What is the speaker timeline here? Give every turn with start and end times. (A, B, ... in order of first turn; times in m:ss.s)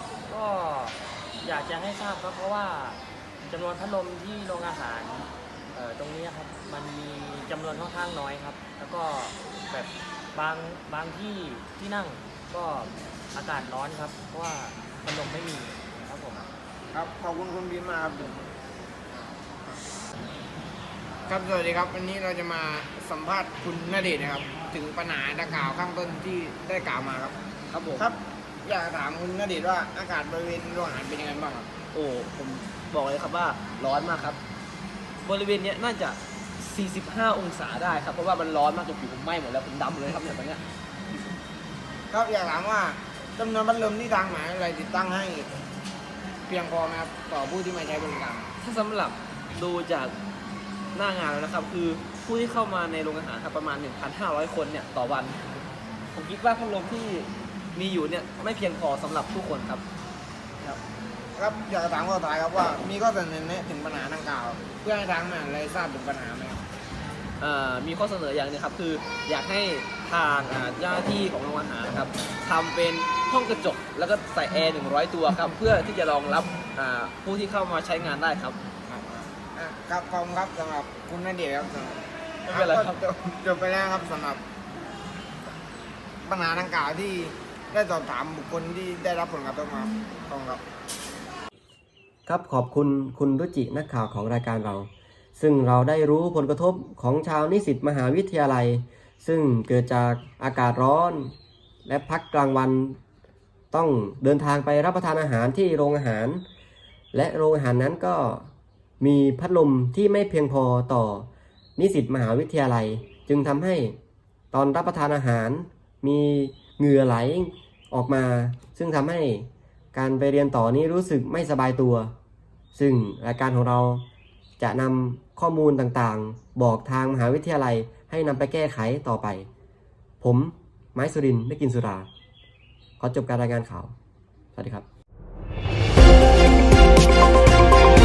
0:00.3-0:16.5 A
0:16.9-0:18.5 B
0:19.1-0:19.8 B
0:21.3-0:27.4 B
0:27.7-0:28.1 C
0:28.0-0:31.7 B
0:31.9-0:34.4 C
0:35.2-0:40.6 C
0:42.1-0:45.5 B
0:46.5-0:48.5 B
0:48.6-0:50.2 C
0:50.9-0:55.4 C
0:56.1-0:59.8 C
1:01.4-1:06.7 B
1:07.4-1:18.6 C
1:18.9-1:24.4 B
1:22.5-1:23.0 C
1:26.2-1:30.6 B
1:32.3-1:41.3 D
1:41.9-1:43.0 D
1:43.7-1:46.5 D
1:47.1-1:54.0 D
1:54.5-2:02.1 D
2:02.7-2:04.1 D
2:04.6-2:09.5 D
2:10.2-2:12.1 D
2:13.0-2:14.0 D
2:14.6-2:14.9 D